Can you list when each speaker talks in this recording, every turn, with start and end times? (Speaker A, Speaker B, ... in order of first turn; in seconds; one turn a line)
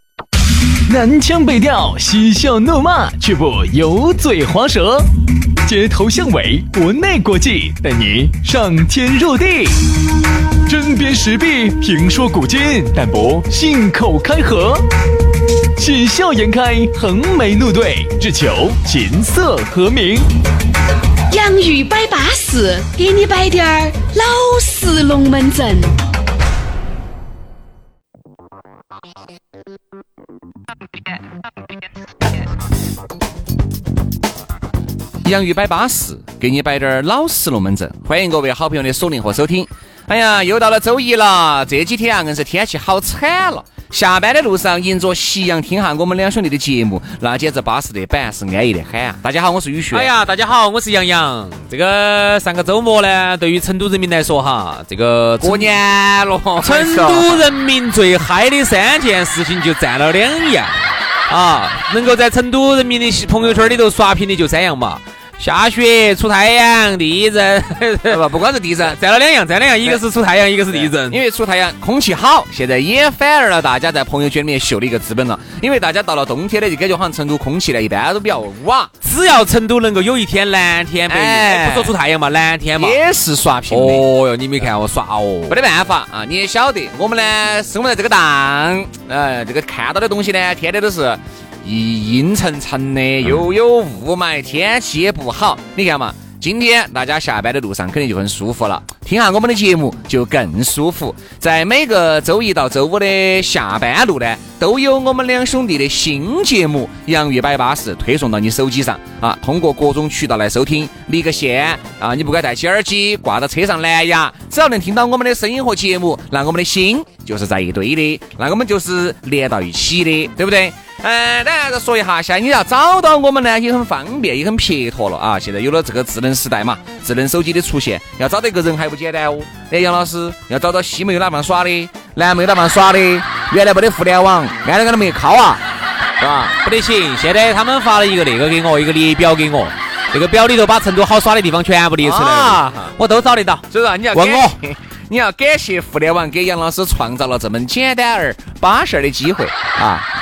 Speaker A: 0.8-5.1
Speaker A: 5.6-9.9
Speaker A: 10.7-14.9
Speaker A: 15.8-20.3
Speaker B: 21.3-26.0
Speaker C: 35.2-50.1
Speaker D: 49.9-55.7
Speaker C: 55.4-57.4
Speaker D: 56.6-60.8
Speaker D: 61.3-68.3
Speaker C: 68.1-69.0
Speaker D: 68.8-71.2
Speaker C: 70.7-78.9
Speaker D: 79.0-83.0
Speaker C: 81.1-81.9
Speaker C: 82.8-84.1
Speaker D: 83.7-85.6
Speaker C: 85.5-135.6
Speaker C: 136.2-136.5
Speaker D: 136.6-144.6
Speaker C: 142.0-142.9
Speaker C: 143.7-150.1